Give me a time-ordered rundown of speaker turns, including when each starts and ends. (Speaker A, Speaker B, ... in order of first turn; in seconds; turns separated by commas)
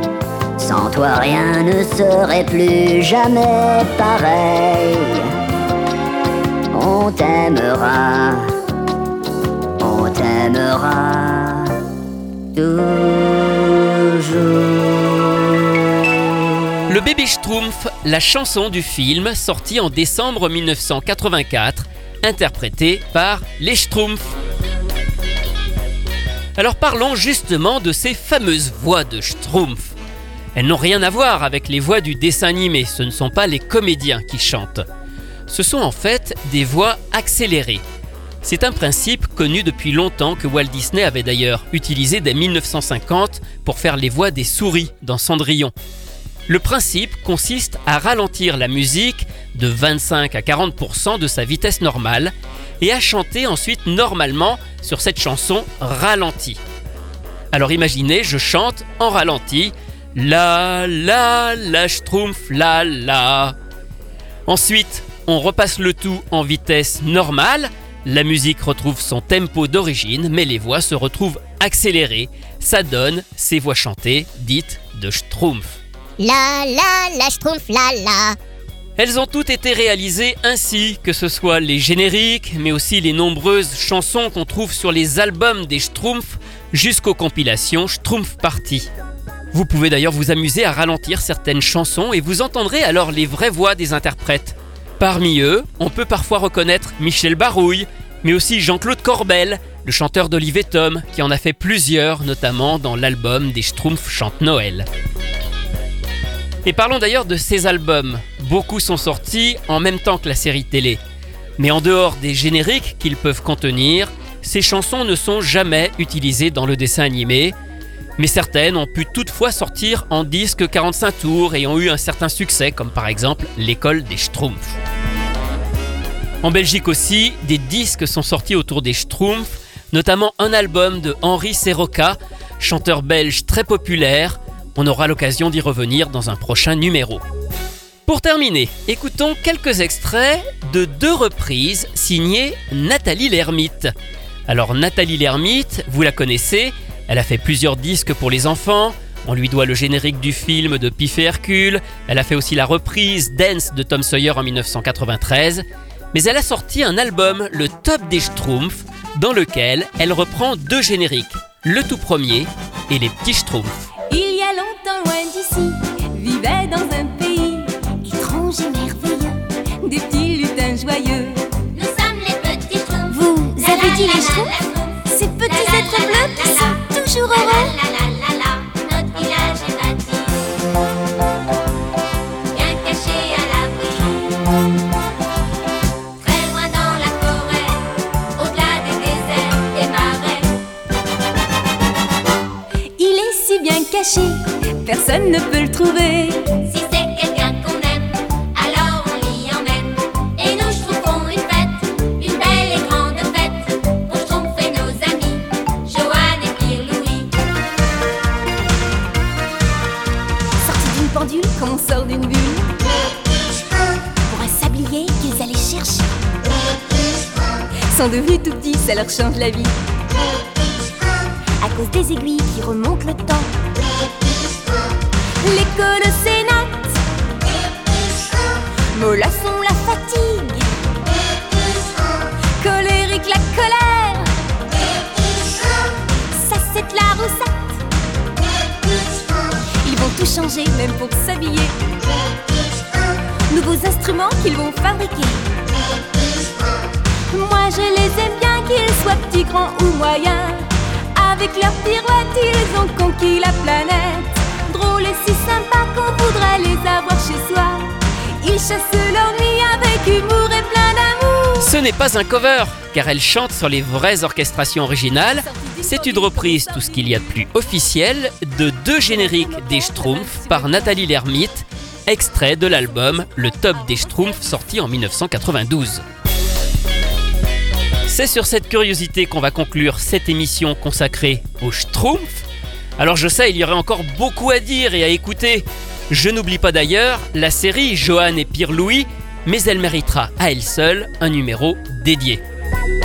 Speaker A: 0.6-5.3, Speaker A: 6.7-8.4, Speaker A: 9.8-11.7, Speaker A: 12.6-15.2, Speaker B: 16.9-24.3, Speaker B: 26.6-29.9, Speaker B: 30.6-34.9, Speaker B: 35.5-37.8, Speaker B: 38.4-45.7, Speaker B: 46.5-56.6, Speaker B: 57.5-63.5, Speaker B: 64.5-75.8, Speaker C: 76.2-78.4, Speaker B: 79.0-88.9, Speaker B: 89.5-104.9, Speaker B: 106.7-111.0, Speaker B: 111.6-117.5, Speaker B: 118.2-124.8, Speaker B: 126.4-137.2, Speaker B: 138.1-143.9, Speaker B: 144.5-163.9, Speaker D: 164.1-171.4, Speaker E: 171.8-173.1, Speaker D: 173.1-177.8, Speaker E: 173.6-174.9, Speaker E: 175.5-176.9, Speaker E: 177.5-180.3, Speaker E: 182.5-184.2, Speaker E: 186.2-187.8, Speaker E: 188.4-190.5, Speaker D: 193.0-196.5, Speaker E: 196.7-207.3, Speaker D: 210.6-212.7, Speaker D: 214.3-216.1, Speaker D: 217.9-219.7, Speaker D: 221.6-223.5, Speaker D: 225.4-227.0, Speaker D: 228.9-230.8, Speaker D: 232.6-234.3, Speaker D: 236.3-237.8, Speaker D: 239.8-241.8, Speaker D: 243.5-245.5, Speaker D: 247.3-261.7, Speaker B: 261.6-276.0, Speaker D: 265.4-267.5, Speaker D: 269.0-271.1, Speaker D: 272.7-274.4, Speaker B: 278.1-282.4, Speaker B: 283.0-292.4